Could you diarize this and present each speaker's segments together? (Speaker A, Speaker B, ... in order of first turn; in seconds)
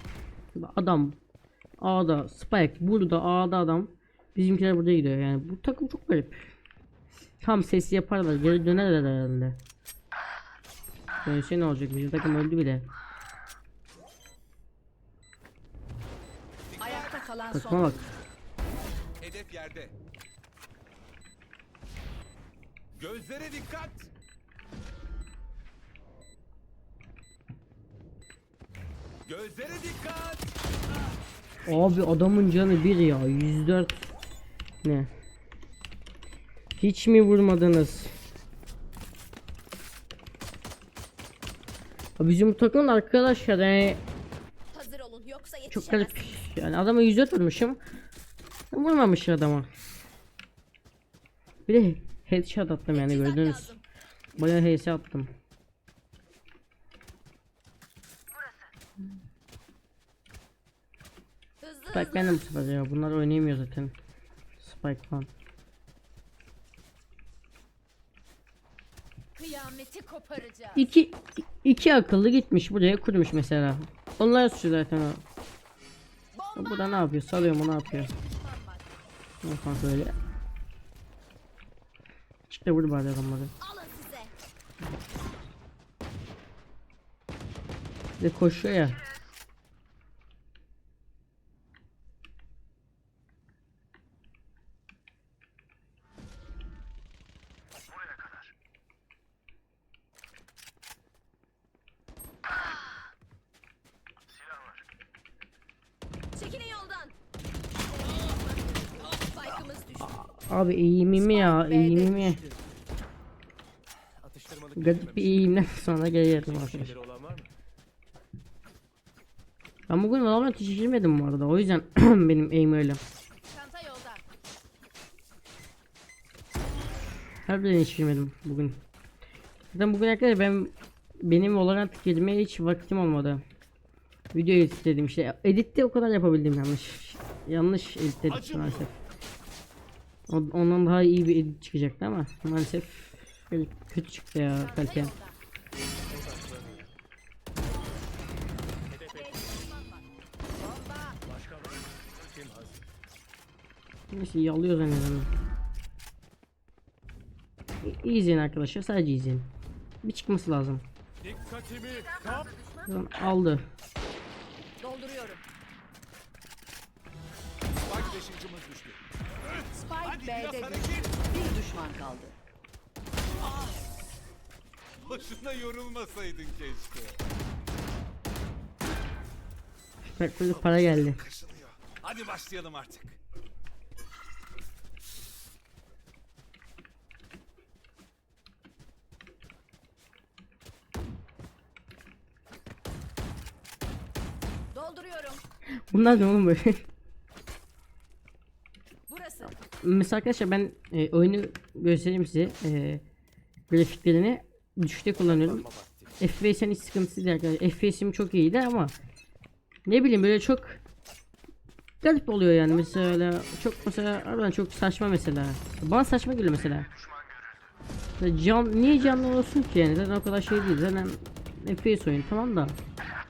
Speaker A: 0.6-1.2, 1.8-6.5, 7.4-9.6, 11.2-12.9, 17.5-18.1, 31.7-34.0, 34.8-35.1, 36.8-38.1, 42.2-44.0, 45.7-47.8, 48.7-49.7, 51.7-53.7, 54.4-55.3, 61.9-64.0, 64.6-65.3, 70.8-75.2, 76.6-78.1, 79.4-80.2, 82.5-83.5, 88.2-89.0, 110.0-112.4, 114.8-117.0, 119.9-123.0, 127.5-128.8, 129.7-133.4, 134.3-138.9, 140.3-145.1, 154.1-155.3, 157.8-159.5, 160.0-160.9, 162.9-163.6, 180.0-181.2, 195.9-196.9, 199.4-203.0, 203.7-205.7, 206.2-208.9, 209.9-210.8, 212.0-216.9, 218.2-222.8
Speaker B: 16.7-17.3, 19.2-19.9, 22.9-24.1, 29.2-30.6, 138.3-138.9, 167.8-171.2, 175.0-177.2, 180.5-183.2
Speaker C: 16.8-18.1, 111.2-112.6, 169.7-172.4
Speaker D: 44.7-46.3, 52.9-53.8, 58.3-58.7, 61.6-62.4, 69.3-70.9, 76.3-78.9, 83.6-84.3, 106.3-107.2, 107.8-110.2, 123.5-124.2, 144.6-145.4, 149.1-150.1, 150.6-151.2, 161.8-162.9, 164.8-165.4, 194.7-195.4, 199.1-199.5
Speaker E: 114.2-117.5, 146.1-146.9, 148.9-149.6, 151.2-152.8, 161.2-162.6, 205.2-206.2